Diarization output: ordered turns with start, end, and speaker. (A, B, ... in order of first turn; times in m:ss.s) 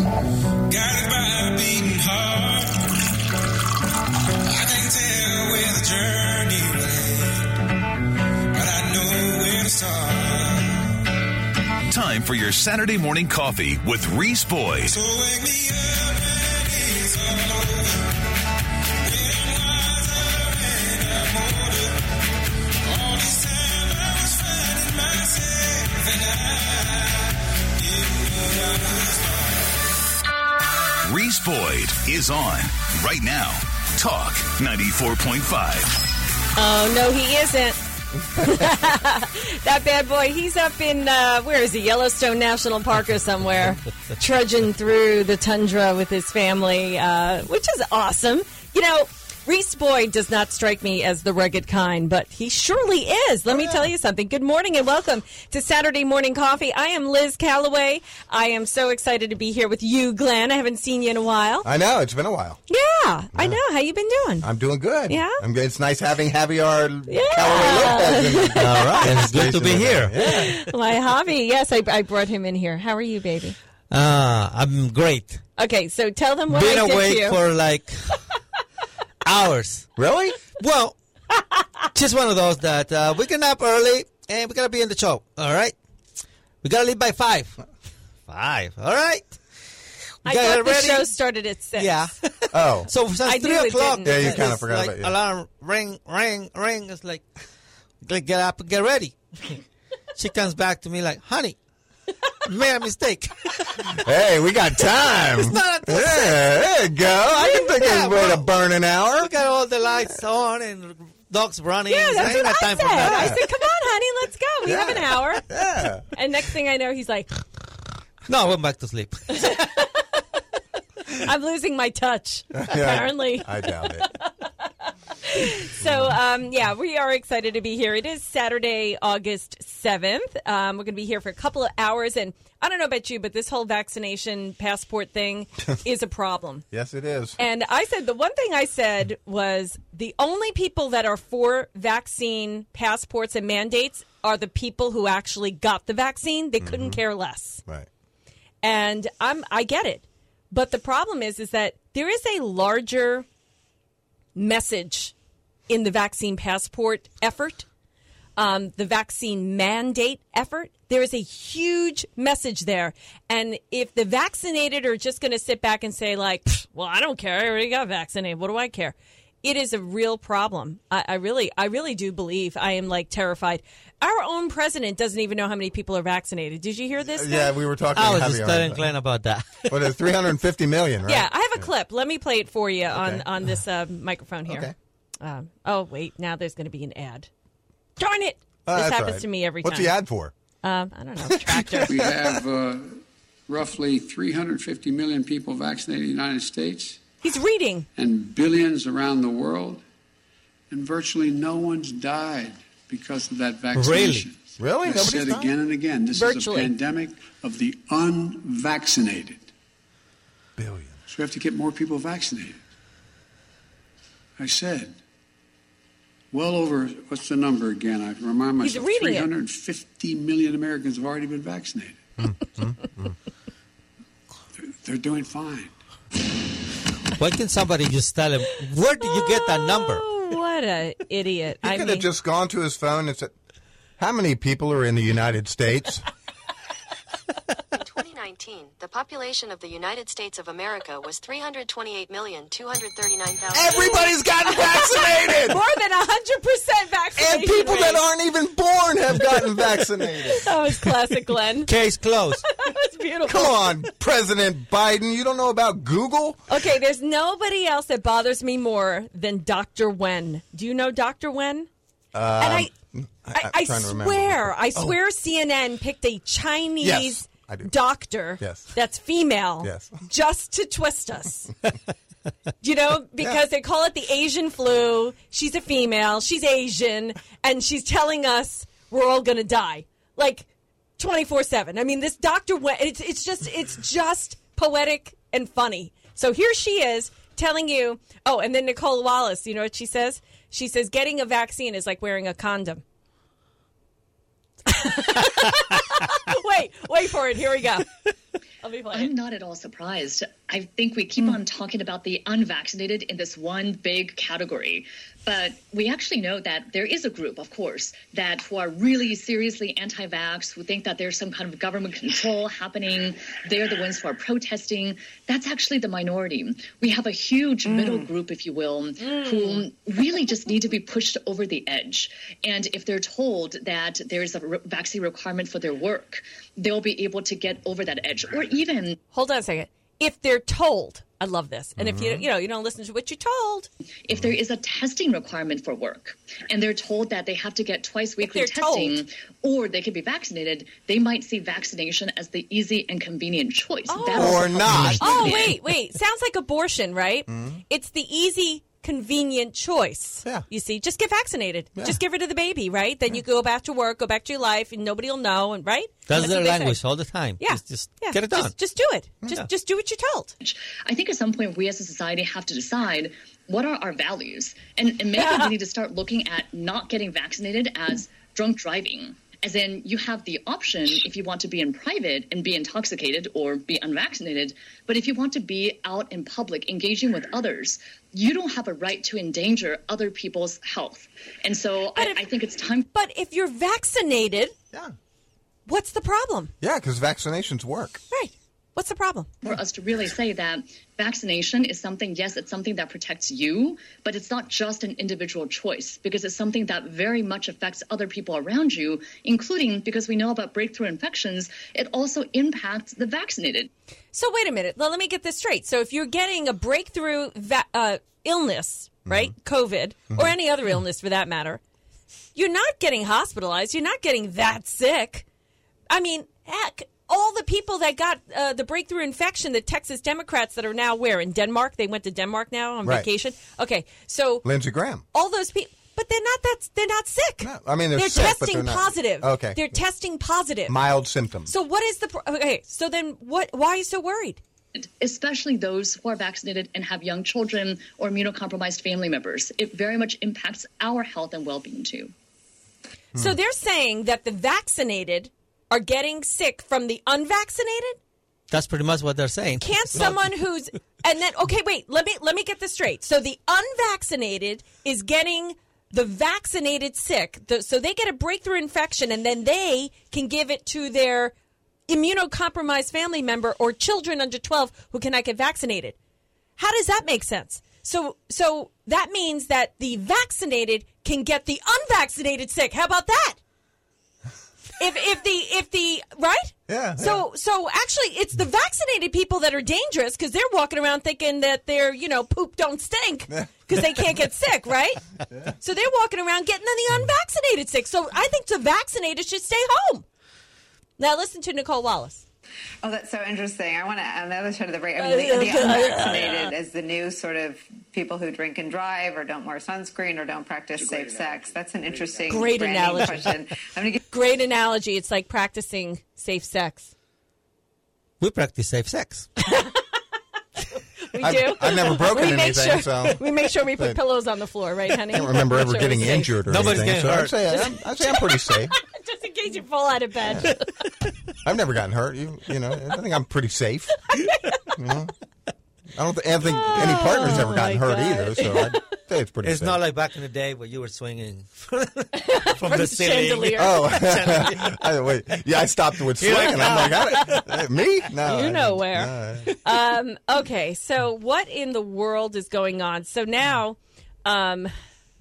0:00.7-0:02.9 A
0:04.5-0:07.5 A
0:08.5-0:10.8 A
0:11.9-0:15.0 B
0:14.9-0:18.1 A
0:19.0-0:22.0 A
0:22.8-0:29.8 A
0:31.0-0:36.0 B
0:36.6-0:37.8 C
0:38.2-0:38.7 D
0:38.4-1:01.7 C
0:43.4-0:44.2 E
0:53.5-0:53.9 D
1:01.6-1:02.6 D
1:02.7-1:04.5 C
1:03.3-1:03.6 D
1:04.4-1:10.5 D
1:05.1-1:05.4 C
1:07.1-1:09.2 C
1:09.0-1:10.6 E
1:10.2-1:13.6 C
1:13.9-1:15.4 E
1:15.6-1:17.4 C
1:16.5-1:18.2 E
1:19.2-1:19.9 E
1:20.0-1:20.4 D
1:20.6-1:21.0 E
1:21.9-1:25.8 E
1:26.6-1:27.6 E
1:28.3-1:29.4 E
1:30.2-1:31.1 E
1:30.3-1:32.1 C
1:31.8-1:37.2 E
1:32.5-1:32.9 D
1:33.2-1:34.5 C
1:34.0-1:35.1 D
1:38.0-1:39.2 E
1:40.2-1:41.6 E
1:42.4-1:43.8 E
1:43.8-1:49.3 D
1:45.4-1:48.5 E
1:49.2-1:53.3 E
1:51.9-1:55.4 C
1:53.0-1:53.4 D
1:54.6-1:56.0 D
1:56.2-1:57.3 C
1:58.3-1:59.5 E
1:59.4-2:00.2 C
2:01.2-2:04.1 C
2:02.6-2:04.1 D
2:05.2-2:16.7 C
2:05.8-2:06.2 D
2:16.7-2:17.4 D
2:17.4-2:27.6 C
2:26.6-2:27.0 D
2:28.6-2:33.3 C
2:34.4-2:35.1 C
2:35.7-2:37.7 C
2:38.4-2:57.5 C
2:57.1-2:58.9 D
2:58.0-2:59.6 E
2:59.7-3:01.7 D
3:01.1-3:04.7 C
3:02.9-3:03.3 D
3:04.5-3:04.7 D
3:05.2-3:07.3 C
3:08.0-3:09.9 C
3:08.7-3:10.3 D
3:10.6-3:12.0 C
3:11.3-3:11.9 D
3:11.8-3:17.1 F
3:17.2-3:17.9 C
3:18.0-3:19.8 F
3:20.7-3:29.5 F
3:23.7-3:24.3 E
3:24.6-3:25.5 D
3:26.1-3:26.8 C
3:30.6-3:30.9 D
3:31.1-3:32.6 F
3:34.4-3:35.0 F
3:36.3-3:42.0 F
3:38.6-3:39.3 C
3:42.2-3:43.2 D
3:44.6-3:45.8 F
3:47.2-3:50.0 E
3:49.0-3:52.1 C
3:51.6-3:53.3 D
3:54.0-3:56.0 D
3:57.8-4:04.0 G
4:03.5-4:05.6 D
4:03.8-4:08.0 C
4:07.2-4:10.4 D
4:10.3-4:11.7 C
4:11.6-4:12.4 E
4:12.5-4:13.7 C
4:13.3-4:16.4 D
4:16.5-4:21.7 C
4:22.1-4:25.0 D
4:22.4-4:22.7 C
4:23.4-4:31.5 C
4:26.8-4:27.7 D
4:28.4-4:28.7 D
4:29.6-4:30.0 D
4:32.6-4:52.8 C
4:54.7-4:57.9 C
4:58.6-4:59.1 C
4:58.9-5:29.0 H
5:19.2-5:19.6 C
5:29.1-5:33.7 C
5:31.8-5:32.3 D
5:34.1-5:45.6 H
5:38.2-5:39.0 C
5:43.9-5:56.8 C
5:44.2-5:45.4 D
5:44.7-5:45.0 E
5:47.3-5:47.6 D
5:56.1-5:58.5 E
5:57.4-6:00.3 C
6:00.4-6:22.9 H
6:05.2-6:05.5 C
6:22.0-6:22.3 C
6:22.9-6:24.5 C
6:25.7-6:26.5 C
6:26.6-6:28.0 D
6:28.1-6:29.3 C
6:29.4-6:43.7 H
6:44.1-6:51.6 C
6:49.1-6:49.3 D
6:52.4-6:55.2 C
6:55.9-7:04.5 C
7:04.4-7:05.0 D
7:05.1-7:10.8 C
7:07.4-7:09.8 D
7:10.7-7:11.5 D
7:11.5-7:14.4 C
7:14.8-7:22.1 H
7:23.2-7:28.0 C
7:28.5-7:30.3 E
7:29.6-7:41.3 C
7:41.9-7:46.0 C
7:46.6-7:53.4 C
7:54.8-8:05.0 C
7:56.7-7:57.2 D
8:05.6-8:10.0 C
8:11.0-8:12.2 C
8:12.8-8:24.0 I
8:15.0-8:16.5 C
8:22.3-8:23.4 C
8:24.1-8:26.9 C
8:28.2-8:29.3 E
8:29.5-8:29.8 C
8:31.1-8:36.8 C
8:31.2-8:34.0 D
8:35.1-8:38.8 D
8:36.5-8:37.6 E
8:37.5-8:40.7 C
8:40.2-8:40.5 D
8:41.4-8:44.0 D
8:44.8-8:45.1 D
8:45.9-8:49.8 D
8:46.4-8:48.8 C
8:49.4-8:54.7 E
8:52.2-8:53.9 C
8:53.6-8:59.5 D
8:56.2-8:57.5 E
8:56.3-8:57.4 C
8:58.2-9:04.7 C